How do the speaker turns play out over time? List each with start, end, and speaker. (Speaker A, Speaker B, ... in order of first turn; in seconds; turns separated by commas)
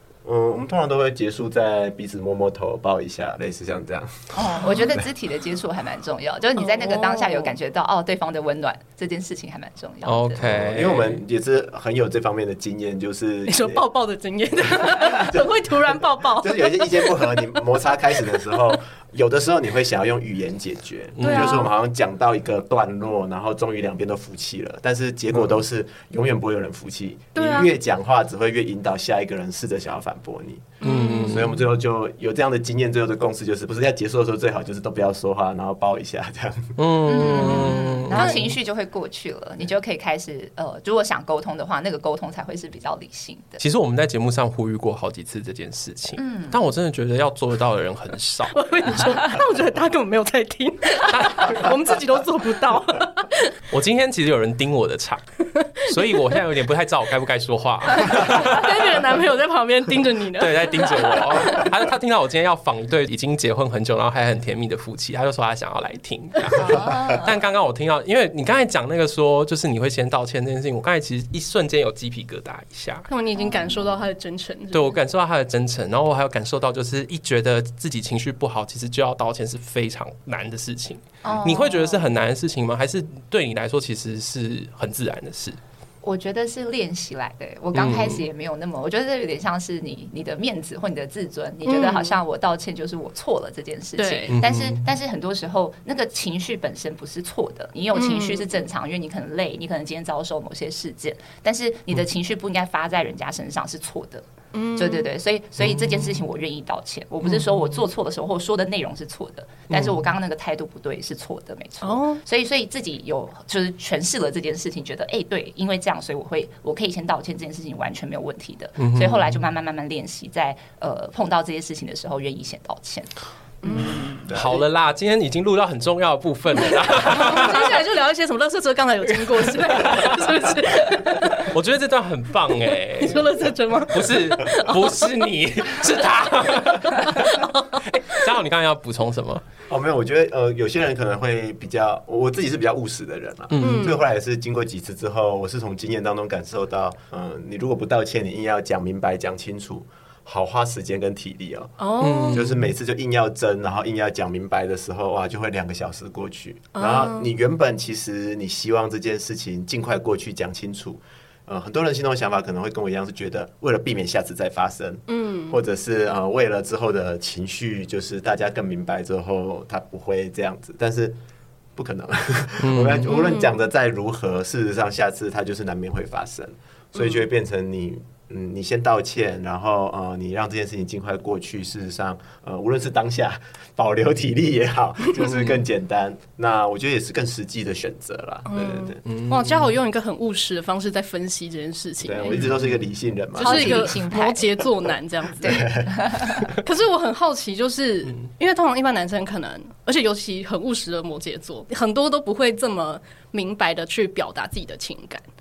Speaker A: 0.2-5.0, Speaker B: 4.3-10.4, Speaker C: 6.6-7.5, Speaker D: 10.0-11.2, Speaker A: 10.4-13.8, Speaker C: 13.5-17.4, Speaker A: 14.6-36.7, Speaker C: 18.1-18.7, Speaker D: 21.2-21.6, Speaker C: 21.2-21.7, Speaker C: 27.3-27.7, Speaker D: 30.8-31.5, Speaker C: 30.8-31.5, Speaker D: 36.8-38.5, Speaker B: 37.0-43.6, Speaker C: 37.3-38.5, Speaker D: 43.6-49.2, Speaker B: 46.2-46.6, Speaker C: 48.5-53.5, Speaker D: 51.1-51.6, Speaker D: 53.7-55.2, Speaker D: 55.8-59.2, Speaker C: 58.0-61.7, Speaker D: 60.3-73.1, Speaker B: 66.5-67.3, Speaker C: 73.1-75.0, Speaker B: 73.4-73.8, Speaker D: 74.7-85.6, Speaker B: 81.2-82.1, Speaker B: 86.0-123.1, Speaker D: 87.7-88.2, Speaker C: 91.7-92.2, Speaker C: 94.0-94.4, Speaker D: 94.3-94.8, Speaker C: 97.9-98.5, Speaker C: 104.5-105.1, Speaker D: 105.7-106.1, Speaker D: 109.7-110.0, Speaker C: 111.8-112.2, Speaker D: 118.8-119.4, Speaker C: 123.6-124.1, Speaker D: 123.7-127.8, Speaker A: 124.1-124.6, Speaker C: 127.0-131.5, Speaker D: 129.3-130.2, Speaker D: 131.3-139.4, Speaker C: 133.0-135.1, Speaker C: 137.1-137.8, Speaker A: 139.7-151.8, Speaker D: 143.5-143.9, Speaker C: 143.6-144.0, Speaker C: 151.8-152.5, Speaker D: 152.0-152.6, Speaker A: 152.3-171.2, Speaker C: 156.8-157.3, Speaker C: 165.1-165.6, Speaker A: 171.7-189.0, Speaker D: 172.6-173.1, Speaker C: 173.1-173.5, Speaker C: 188.5-192.5, Speaker D: 189.1-189.7, Speaker A: 192.0-194.0, Speaker B: 193.3-194.5, Speaker C: 193.4-195.6, Speaker A: 195.4-196.5, Speaker B: 195.4-196.5, Speaker C: 196.5-205.2